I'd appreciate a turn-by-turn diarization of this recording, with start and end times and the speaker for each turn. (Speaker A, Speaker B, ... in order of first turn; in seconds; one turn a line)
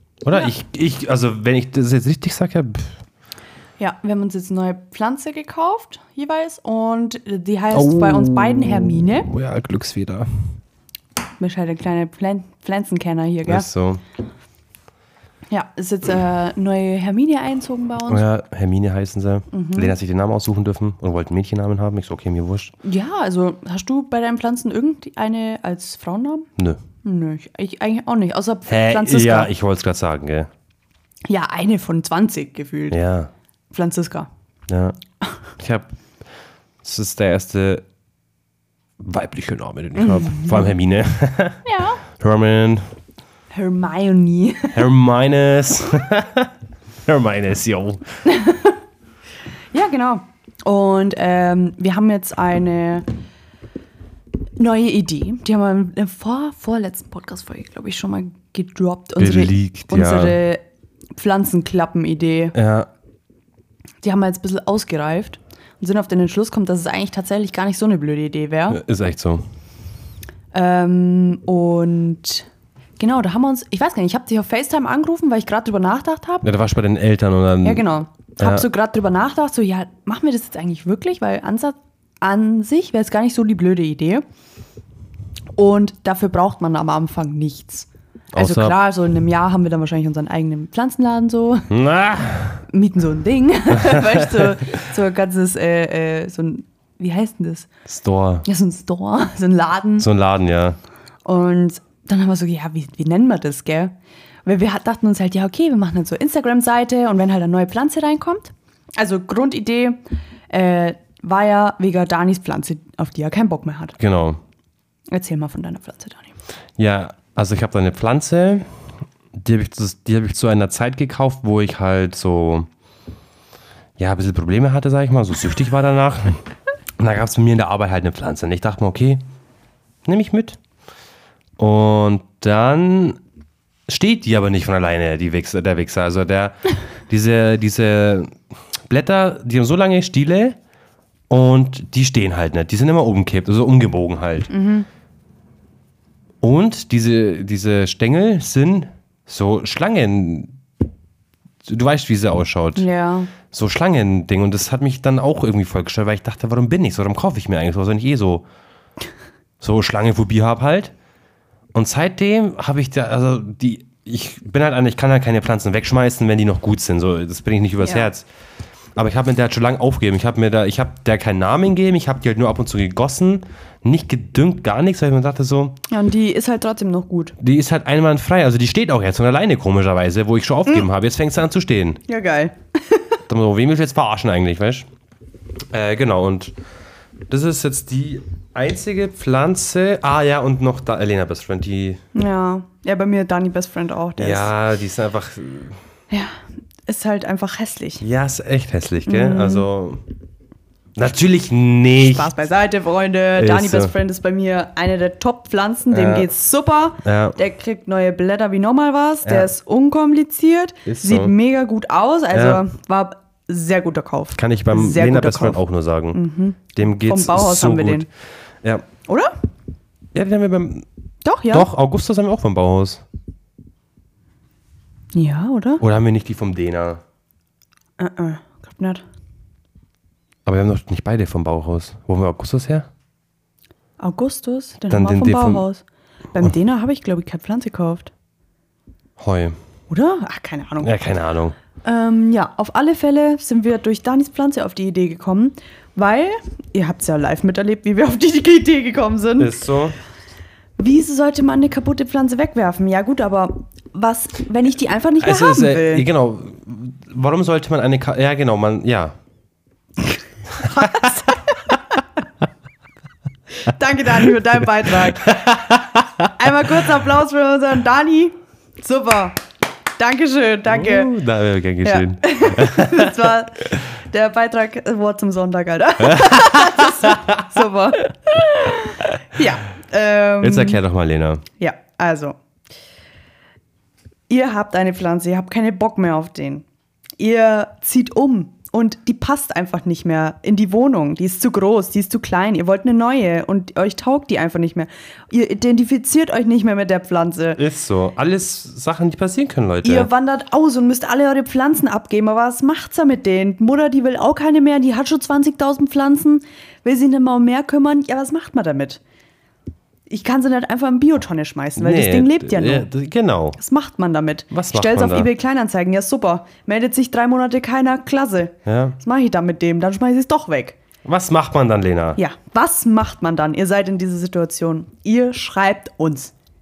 Speaker A: 0.2-3.0
Speaker B: 3.8-9.3
Speaker A: 7.7-10.5
Speaker B: 11.4-13.7
Speaker A: 13.5-14.0
Speaker B: 15.5-18.2
Speaker A: 18.1-22.7
Speaker B: 19.5-19.9
Speaker B: 22.8-26.5
Speaker B: 27.0-29.5
Speaker A: 28.7-30.5
Speaker B: 31.2-33.0
Speaker A: 32.9-33.3
Speaker B: 33.7-34.3
Speaker A: 34.7-35.0
Speaker A: 35.6-35.9
Speaker A: 36.8-37.9
Speaker A: 39.0-41.6
Speaker B: 40.0-40.7
Speaker B: 41.6-42.0
Speaker A: 42.1-42.9
Speaker B: 43.5-44.8
Speaker A: 44.7-46.5
Speaker A: 47.1-48.0
Speaker B: 48.2-48.8
Speaker B: 49.7-53.1
Speaker B: 54.6-60.6
Speaker A: 59.2-60.4
Speaker B: 61.2-62.6
Speaker A: 62.5-62.9
Speaker B: 64.0-68.8
Speaker A: 68.7-69.5
Speaker B: 70.5-72.5
Speaker B: 73.0-76.5
Speaker A: 76.4-77.9
Speaker B: 77.6-84.2
Speaker A: 78.4-78.7
Speaker B: 85.6-91.7
Speaker A: 88.3-88.8
Speaker A: 91.7-92.6
Speaker B: 92.7-97.7
Speaker A: 93.8-94.5
Speaker A: 97.9-98.5
Speaker B: 98.5-100.1
Speaker A: 100.0-100.8
Speaker B: 101.2-103.9
Speaker B: 104.5-114.0
Speaker A: 114.0-114.4
Speaker B: 115.1-116.3
Speaker A: 116.8-118.7
Speaker A: 119.3-122.7
Speaker A: 124.0-126.4
Speaker A: 127.0-129.2
Speaker A: 130.1-130.6
Speaker A: 131.6-133.2
Speaker A: 133.9-140.6
Speaker A: 141.3-144.5
Speaker B: 144.5-144.9
Speaker A: 146.4-150.6
Speaker A: 151.7-152.9
Speaker B: 152.8-153.3
Speaker A: 153.5-158.5
Speaker A: 159.6-160.9
Speaker A: 161.7-168.2
Speaker B: 167.8-168.1
Speaker A: 169.0-175.8
Speaker B: 175.9-177.4
Speaker A: 177.4-182.0
Speaker B: 182.1-183.2
Speaker A: 183.3-184.9
Speaker A: 185.7-186.5
Speaker A: 187.3-192.0
Speaker B: 192.1-194.5
Speaker A: 194.2-195.8
Speaker B: 196.1-198.0
Speaker A: 198.0-200.0
Speaker B: 199.1-199.7
Speaker A: 201.0-202.3
Speaker B: 202.0-215.6
Speaker A: 203.4-203.9
Speaker A: 205.9-206.3
Speaker A: 207.0-207.4
Speaker A: 209.2-209.5
Speaker A: 210.9-211.3
Speaker A: 212.3-212.6
Speaker A: 214.4-216.2
Speaker B: 216.1-218.1
Speaker A: 216.8-218.1
Speaker B: 219.1-219.3
Speaker A: 220.1-220.9
Speaker B: 221.2-221.7
Speaker A: 221.5-223.0
Speaker B: 225.1-225.8
Speaker A: 225.8-227.0
Speaker B: 228.0-229.0
Speaker A: 230.5-232.9
Speaker B: 234.0-238.1
Speaker A: 234.9-235.6
Speaker A: 239.2-239.6
Speaker B: 239.9-240.9
Speaker A: 240.8-241.6
Speaker B: 241.8-249.6
Speaker A: 249.4-250.0
Speaker B: 250.8-256.1
Speaker A: 255.2-259.1
Speaker A: 260.6-261.1
Speaker B: 260.6-262.0
Speaker B: 263.6-265.6
Speaker A: 265.1-266.3
Speaker B: 266.4-269.4
Speaker B: 270.0-271.1
Speaker A: 270.7-273.1
Speaker B: 271.8-280.8
Speaker A: 276.1-277.4
Speaker A: 280.4-281.4
Speaker B: 281.6-282.4
Speaker B: 284.3-286.6
Speaker B: 287.2-297.6
Speaker A: 297.6-300.1
Speaker B: 299.8-309.0
Speaker B: 310.1-312.9
Speaker A: 311.8-313.6
Speaker B: 313.6-320.8
Speaker A: 314.5-315.3
Speaker A: 318.6-319.0
Speaker A: 321.1-322.2
Speaker B: 322.1-326.3